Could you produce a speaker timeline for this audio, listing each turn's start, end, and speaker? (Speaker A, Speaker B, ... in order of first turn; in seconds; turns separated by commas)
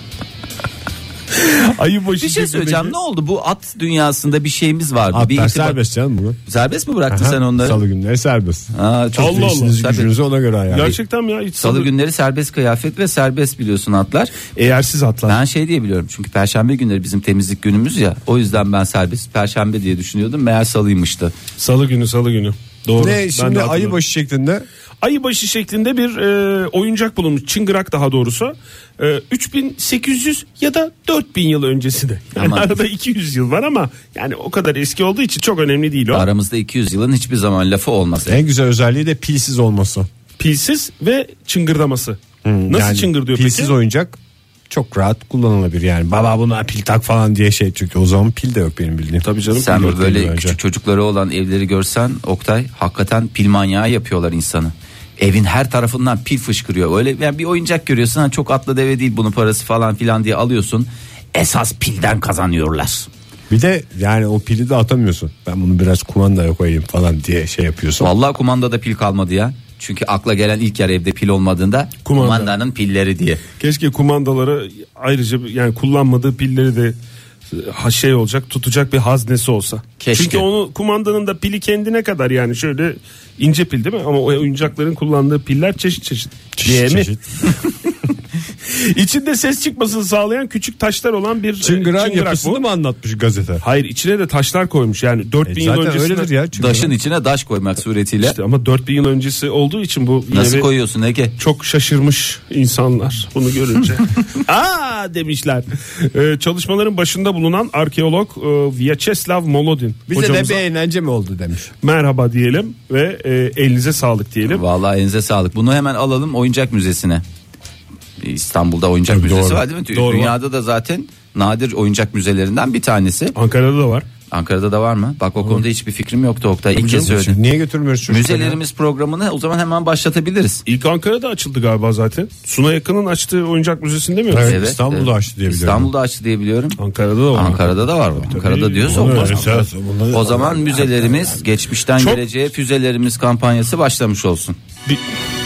Speaker A: 1.3-3.0, Speaker B: 2.2-5.8, Speaker C: 5.1-6.4, Speaker B: 6.5-7.8, Speaker C: 7.1-11.0, Speaker B: 8.7-10.1, Speaker A: 9.2-9.8, Speaker A: 10.7-11.9, Speaker B: 11.6-14.4, Speaker A: 14.5-15.4, Speaker B: 15.3-21.3, Speaker A: 21.6-24.0, Speaker C: 22.9-24.6, Speaker A: 25.0-36.3, Speaker B: 32.3-32.7, Speaker B: 36.1-38.4, Speaker C: 38.2-40.1, Speaker A: 40.4-43.7, Speaker C: 42.4-50.6, Speaker A: 49.2-49.9, Speaker B: 49.5-63.1, Speaker C: 63.5-68.1, Speaker B: 68.0-73.4, Speaker A: 72.0-72.5, Speaker A: 73.6-77.0, Speaker A: 77.5-87.1, Speaker B: 80.0-80.5, Speaker C: 86.5-87.2, Speaker A: 88.7-92.6, Speaker C: 91.6-93.6, Speaker A: 93.6-96.3, Speaker C: 95.5-96.9, Speaker B: 96.5-98.4, Speaker A: 98.2-100.7, Speaker B: 100.3-101.3, Speaker A: 101.4-110.6, Speaker C: 110.1-111.7, Speaker A: 111.8-114.6, Speaker B: 114.5-117.2, Speaker B: 118.2-123.3, Speaker C: 119.1-119.6, Speaker A: 119.9-120.3, Speaker A: 123.3-124.0, Speaker B: 124.3-127.4, Speaker A: 126.8-127.1, Speaker C: 127.0-128.6, Speaker B: 128.1-130.6, Speaker A: 130.7-134.6, Speaker C: 134.3-135.9, Speaker B: 134.4-136.8, Speaker A: 136.8-139.6, Speaker B: 137.3-144.6, Speaker C: 138.9-141.4, Speaker A: 142.0-142.2